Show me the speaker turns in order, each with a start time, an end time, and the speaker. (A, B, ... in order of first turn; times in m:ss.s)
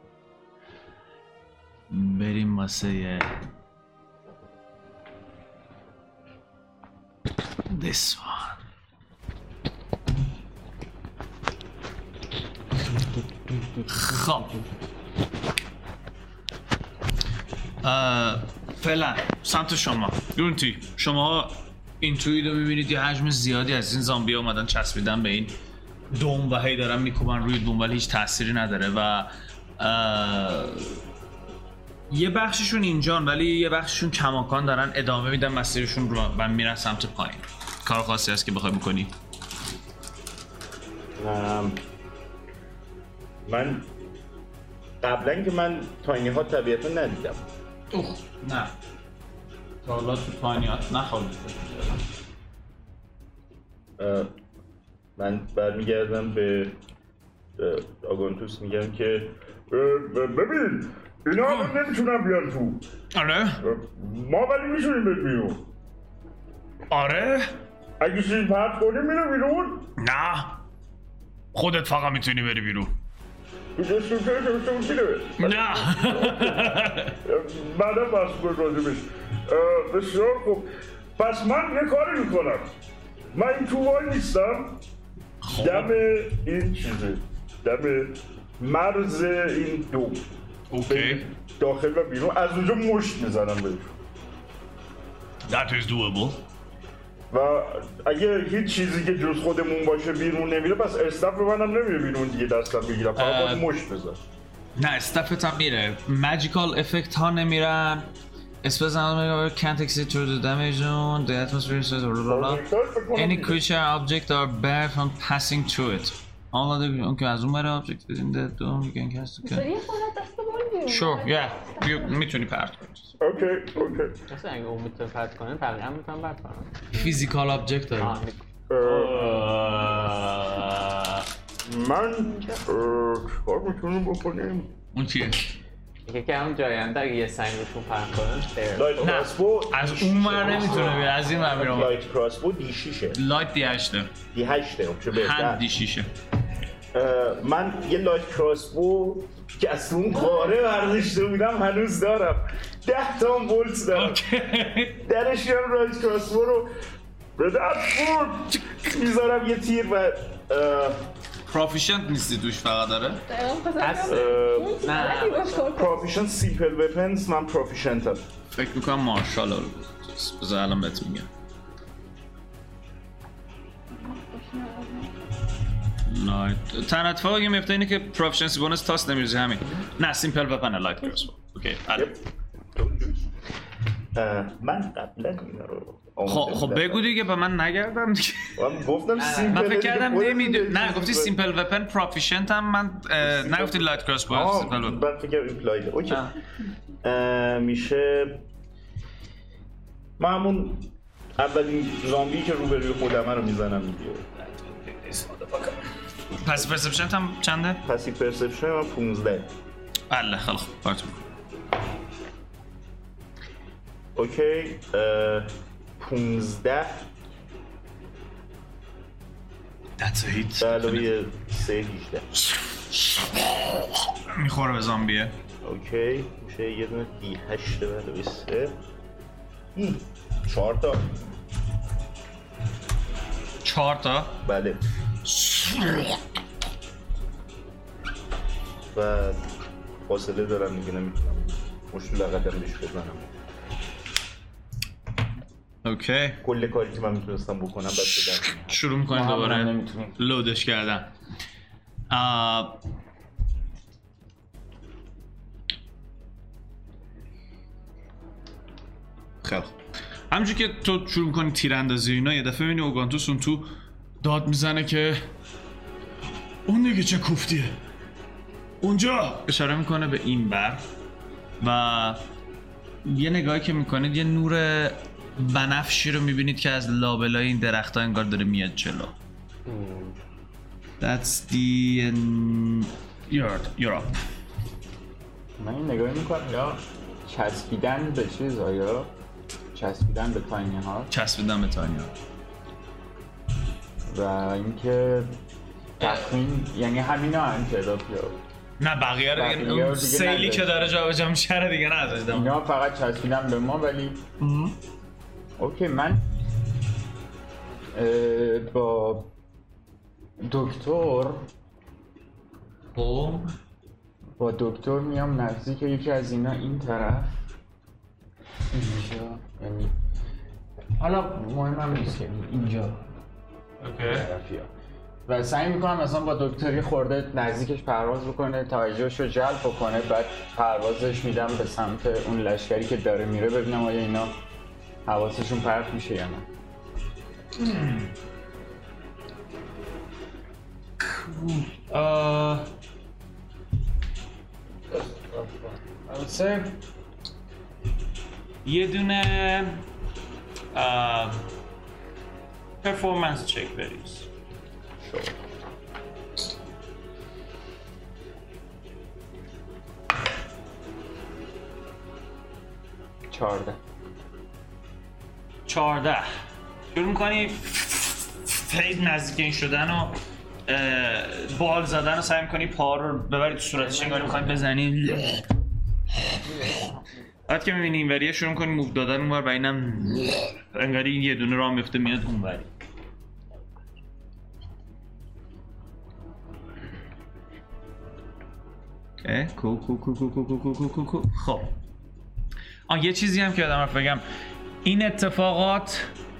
0:01.9-0:03.3 A
0:07.7-0:08.6 A
0:13.9-0:14.6 A
0:17.8-0:25.6 A
0:26.1-0:31.0 A
0:32.1-0:39.1 A
0:41.2-0:41.8 B
0:43.4-0:43.9 B
0:45.0-0:47.4 B
0:47.9-0:48.7 A
0:49.8-0:52.0 A
0:54.0-0:54.3 B
0:55.2-0:56.8 B
0:57.6-1:02.8 B
1:01.4-1:01.7 A
1:03.1-1:03.6 A
1:03.6-1:05.7 B
1:06.9-1:07.5 A
1:08.0-1:09.9 B
1:10.0-1:10.6 A
1:11.5-1:12.9 A
1:13.8-1:22.7 B
1:15.4-1:17.2 A
1:23.3-1:24.8 B
1:25.4-1:25.9 A
1:25.5-1:30.3 B
1:30.7-1:31.3 A
1:30.9-1:34.0 B
1:35.5-1:36.4 A
1:37.3-1:44.2 B
1:43.2-1:43.6 A
1:44.8-1:48.1 A
1:48.6-1:59.7 A
1:52.3-1:53.6 B
1:59.4-2:02.1 C
2:00.9-2:03.1 A
2:03.2-2:04.2 B
2:04.3-2:06.9 D
2:06.9-2:08.2 A
2:08.0-2:10.6 D
2:08.7-2:09.5 B
2:09.0-2:11.2 A
2:11.6-2:14.7 B
2:12.3-2:12.6 C
2:14.9-2:15.5 A
2:16.1-2:19.0 D
2:18.7-2:23.2 B
2:19.0-2:22.0 A
2:23.1-2:24.1 A
2:24.3-2:25.6 B
2:25.1-2:26.1 A
2:26.9-2:34.2 B
2:33.9-2:35.0 A
2:35.0-2:36.7 B
2:37.4-2:41.1 B
2:41.5-2:43.2 A
2:43.3-2:46.1 C
2:43.8-2:45.7 D
2:44.1-2:45.0 B
2:45.7-2:48.2 B
2:48.6-2:51.3 A
2:53.9-2:55.3 C
2:56.0-3:02.1 A
3:02.8-3:03.2 B
3:04.2-3:07.0 B
3:06.3-3:08.8 A
3:08.6-3:11.3 B
3:09.2-3:09.6 D
3:09.5-3:15.0 A
3:13.2-3:16.3 B
3:17.0-3:18.4 B
3:20.2-3:24.3 B
3:24.4-3:25.8 A
3:26.4-3:27.8 A
3:27.8-3:29.5 B
3:30.1-3:31.2 A
3:34.2-3:37.1 B
3:40.0-3:41.1 A
3:40.6-3:42.3 B
3:42.5-3:45.3 A
3:45.6-3:48.8 B
3:49.8-3:51.2 B
3:53.6-3:54.4 A
3:54.4-3:54.8 B
3:55.2-3:56.2 A
3:58.9-3:59.5 B
4:00.0-4:03.3 B
4:05.8-4:06.4 A
4:06.4-4:08.8 B
4:08.6-4:11.1 A
4:09.1-4:10.2 E
4:12.1-4:12.8 A
4:19.4-4:19.8 A
4:20.3-4:23.7 A
4:24.2-4:25.2 A
4:26.7-4:27.8 A
4:28.8-4:30.8 A
4:31.6-4:32.2 A
4:33.0-4:39.1 A
4:39.7-4:40.1 D
4:41.0-4:44.1 A
4:45.6-4:49.1 E
4:49.7-4:51.1 E
4:51.1-4:52.1 A
4:54.1-4:55.3 E
4:56.0-4:58.4 E
4:58.8-5:02.5 A
4:59.4-5:00.9 E
5:02.3-5:04.2 E
5:04.4-5:04.8 A
5:05.6-5:06.2 E
5:07.9-5:09.3 E
5:10.4-5:11.5 E
5:13.0-5:13.5 A
5:14.4-5:17.3 E
5:18.7-5:19.9 E
5:21.0-5:23.0 E
5:23.8-5:24.3 A
5:24.0-5:24.7 E
5:25.3-5:34.4 E
5:35.1-5:36.5 E
5:37.6-5:38.1 A
5:41.0-5:42.7 A
5:45.0-5:45.5 A
5:46.1-5:46.7 A
5:48.6-5:49.8 A
5:50.7-5:51.4 A
5:52.8-5:54.3 A
6:03.3-6:03.8 E
6:05.7-6:06.3 A
6:06.9-6:15.5 A
6:13.9-6:14.6 D
6:16.3-6:16.7 A
6:17.5-6:22.7 A
6:29.2-6:31.7 A
6:32.9-6:34.2 A
6:34.8-6:36.1 A